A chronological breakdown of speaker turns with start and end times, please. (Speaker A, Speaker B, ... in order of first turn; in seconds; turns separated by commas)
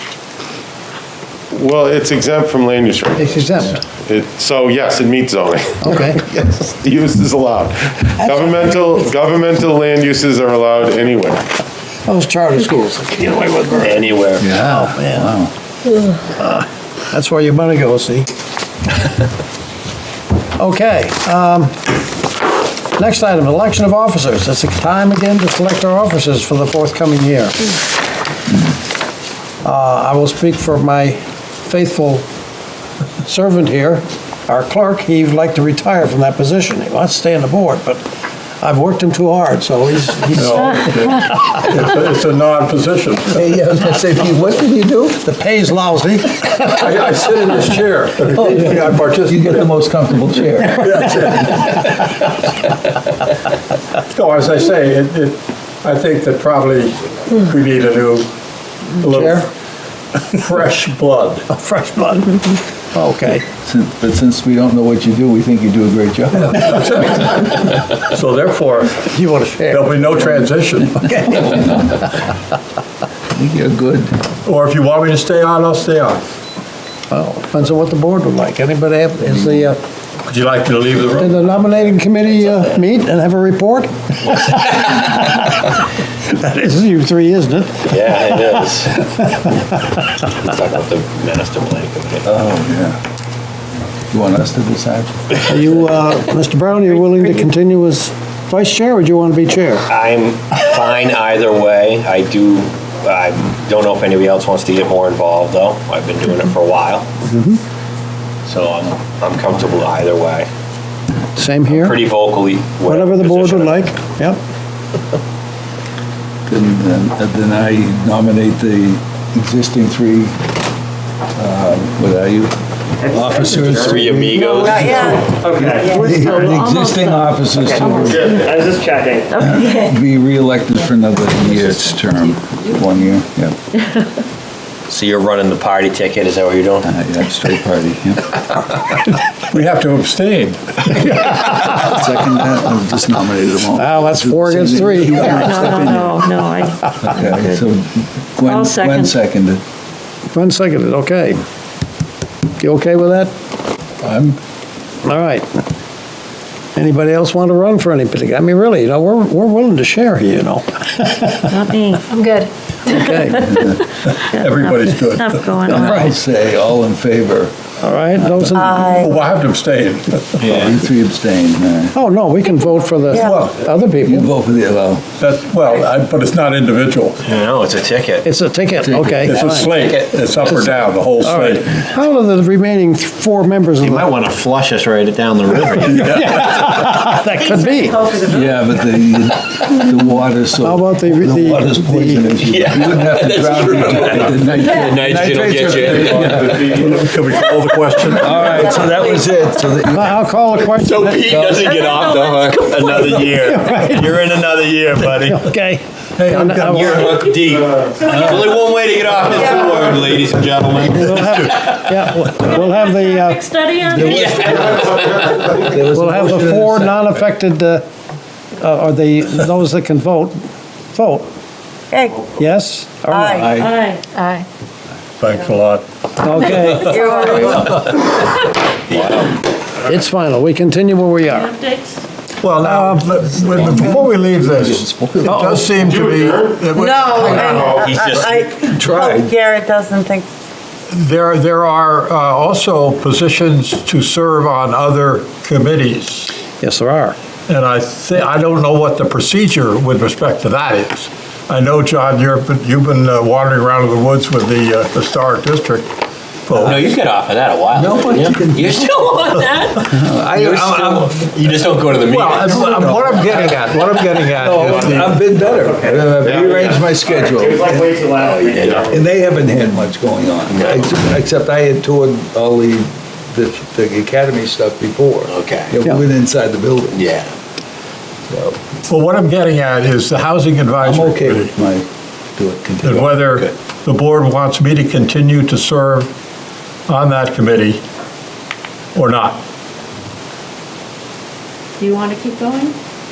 Speaker A: 1.5-11.4, Speaker B: 3.2-3.8, Speaker B: 5.8-6.2, Speaker B: 8.2-9.0, Speaker B: 12.1-15.3, Speaker C: 13.8-14.5, Speaker D: 14.4-15.5, Speaker B: 16.3-18.3, Speaker B: 20.6-21.8, Speaker B: 22.9-27.6, Speaker B: 29.6-32.2, Speaker B: 33.2-38.0, Speaker B: 38.6-40.9, Speaker E: 40.3-43.3, Speaker D: 43.3-45.2, Speaker B: 45.2-46.4, Speaker E: 46.5-49.5, Speaker D: 48.3-51.0, Speaker E: 50.7-52.0, Speaker E: 54.1-58.3, Speaker E: 59.0-59.5, Speaker B: 59.1-59.5, Speaker E: 60.3-61.4, Speaker B: 61.5-63.4, Speaker D: 63.6-66.8, Speaker E: 66.5-69.0, Speaker B: 69.0-70.2, Speaker E: 69.7-71.1, Speaker B: 71.1-71.9, Speaker D: 73.3-74.1, Speaker E: 74.4-76.2, Speaker B: 77.1-79.8, Speaker E: 80.2-81.4, Speaker B: 81.2-88.6, Speaker C: 87.8-89.1, Speaker B: 89.3-89.6, Speaker C: 90.3-92.2, Speaker D: 92.2-93.0, Speaker D: 94.1-96.0, Speaker B: 95.5-99.8, Speaker C: 99.9-107.1, Speaker B: 107.2-107.6, Speaker C: 108.4-110.5, Speaker B: 111.3-112.0, Speaker C: 111.7-113.8, Speaker B: 112.8-114.4, Speaker D: 116.5-120.3, Speaker D: 121.3-128.4, Speaker F: 123.0-123.8, Speaker C: 123.6-124.7, Speaker G: 124.5-126.2, Speaker H: 124.5-125.2, Speaker F: 125.3-125.9, Speaker H: 125.8-128.6, Speaker F: 127.8-129.4, Speaker A: 128.1-128.5, Speaker D: 129.3-133.6, Speaker H: 129.4-129.8, Speaker C: 134.9-136.9, Speaker D: 136.8-138.4, Speaker E: 139.5-141.4, Speaker D: 141.4-146.3, Speaker B: 143.8-145.9, Speaker H: 145.2-147.7, Speaker D: 147.0-149.6, Speaker H: 148.4-149.1, Speaker B: 150.3-151.4, Speaker B: 152.6-153.3, Speaker E: 154.0-154.4, Speaker B: 155.0-155.5, Speaker B: 156.7-161.4, Speaker H: 161.5-162.2, Speaker B: 162.8-163.7, Speaker E: 164.2-165.5, Speaker H: 164.3-166.0, Speaker D: 165.7-167.5, Speaker B: 165.7-166.2, Speaker B: 167.8-169.1, Speaker D: 168.1-168.6, Speaker G: 168.5-169.1, Speaker E: 168.9-170.6, Speaker C: 170.4-170.8, Speaker D: 170.5-171.9, Speaker B: 171.9-174.3, Speaker G: 173.1-173.4, Speaker D: 174.0-175.1, Speaker E: 175.2-177.2, Speaker C: 177.2-178.2, Speaker B: 178.2-179.7, Speaker D: 178.8-179.3, Speaker C: 179.2-180.9, Speaker E: 179.3-181.7, Speaker B: 181.2-184.1, Speaker C: 183.8-186.2, Speaker E: 185.9-186.7, Speaker B: 186.0-188.0, Speaker D: 188.2-197.1, Speaker B: 190.6-192.4, Speaker C: 192.5-196.8, Speaker E: 195.8-198.9, Speaker D: 198.1-200.2, Speaker H: 198.9-199.2, Speaker B: 199.8-201.4, Speaker C: 200.6-205.4, Speaker D: 201.2-202.0, Speaker H: 201.8-202.6, Speaker B: 203.0-204.2, Speaker B: 205.0-207.3, Speaker E: 206.2-207.0, Speaker C: 206.6-211.9, Speaker H: 207.9-208.5, Speaker D: 208.0-208.6, Speaker B: 210.9-213.4, Speaker H: 212.4-214.9, Speaker D: 213.8-217.2, Speaker C: 214.0-215.4, Speaker B: 215.9-217.8, Speaker B: 218.6-220.4, Speaker B: 220.9-221.3, Speaker G: 221.9-222.3, Speaker B: 222.3-223.4, Speaker G: 223.1-223.6, Speaker D: 223.2-223.8, Speaker H: 223.6-224.1, Speaker E: 225.2-225.8, Speaker B: 226.2-227.3, Speaker G: 226.7-227.9, Speaker H: 227.1-227.7, Speaker C: 228.9-229.4, Speaker B: 229.8-231.5, Speaker H: 231.3-232.0, Speaker E: 232.4-237.6, Speaker B: 232.6-233.0, Speaker D: 233.3-235.7, Speaker B: 235.2-236.1, Speaker A: 235.8-236.6, Speaker G: 236.7-240.3, Speaker C: 237.3-238.7, Speaker B: 237.3-237.6, Speaker A: 237.5-237.9, Speaker D: 238.6-239.3, Speaker E: 240.9-246.3, Speaker B: 246.6-247.2, Speaker E: 247.5-255.9, Speaker E: 256.5-256.9, Speaker C: 256.6-263.5, Speaker D: 257.7-258.9, Speaker D: 259.8-261.3, Speaker E: 262.0-265.2, Speaker D: 262.6-268.1, Speaker F: 265.5-268.8, Speaker A: 266.2-266.6, Speaker C: 268.1-269.0, Speaker D: 268.9-277.1, Speaker C: 270.5-270.9, Speaker C: 275.3-275.8, Speaker C: 276.9-277.3, Speaker D: 278.3-278.6, Speaker E: 278.9-281.5, Speaker D: 280.8-283.3, Speaker E: 282.8-286.1, Speaker E: 286.9-287.8, Speaker E: 288.9-289.4, Speaker H: 291.8-292.8